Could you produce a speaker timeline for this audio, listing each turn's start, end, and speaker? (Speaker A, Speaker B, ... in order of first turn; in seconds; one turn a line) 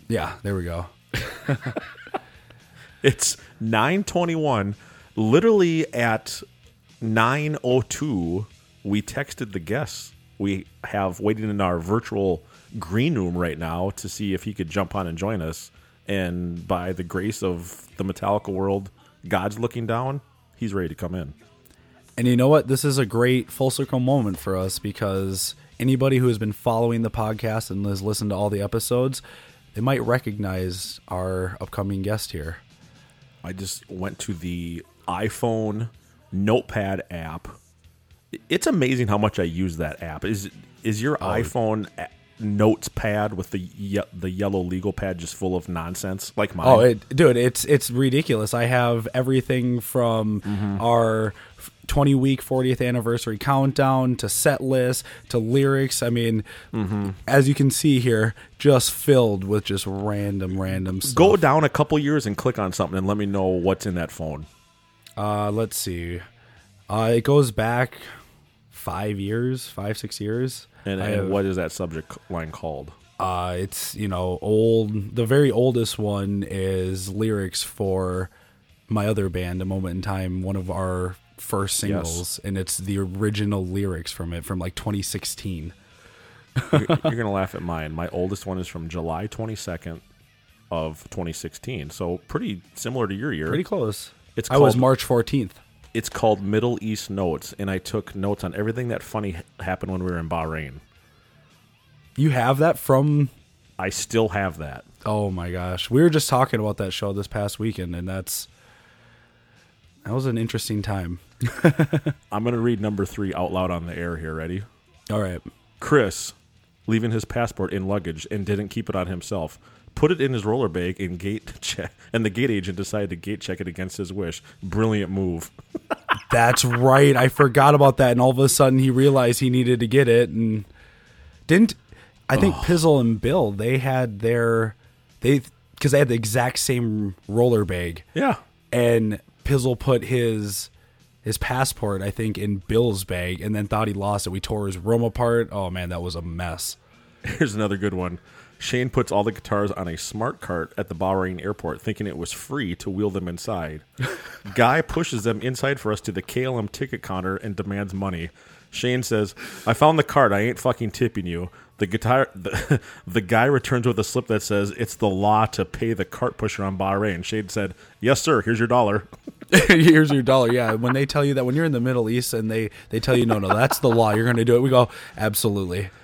Speaker A: 0.1-1.8
Speaker B: 3.0-6.4
Speaker B: 7.0-21.3
Speaker A: 22.2-29.2
Speaker A: 29.7-32.6
Speaker B: 33.4-37.5
Speaker B: 38.3-46.9
Speaker A: 41.2-41.5
Speaker A: 46.6-56.5
Speaker B: 50.4-50.8
Speaker B: 56.7-57.2
Speaker A: 57.2-61.4
Speaker B: 61.0-64.5
Speaker A: 65.2-66.2
Speaker A: 66.9-68.0
Speaker A: 68.7-71.4
Speaker B: 70.8-72.9
Speaker A: 73.2-78.3
Speaker A: 78.9-85.7
Speaker B: 81.8-82.2
Speaker A: 86.6-86.9
Speaker B: 86.7-90.0
Speaker B: 90.7-93.6
Speaker A: 93.5-95.6
Speaker B: 94.3-94.8
Speaker B: 95.9-100.8
Speaker A: 102.2-103.3
Speaker B: 103.8-104.8
Speaker A: 105.0-108.5
Speaker A: 110.0-112.2
Speaker B: 112.3-114.7
Speaker A: 115.1-115.4
Speaker B: 115.8-116.3
Speaker B: 116.9-125.5
Speaker A: 126.3-130.7
Speaker A: 131.5-131.8
Speaker A: 132.3-138.1
Speaker B: 132.3-132.8
Speaker B: 138.2-138.4
Speaker A: 138.7-140.7
Speaker A: 141.2-146.8
Speaker B: 147.2-153.8
Speaker B: 154.5-169.1
Speaker A: 169.5-175.9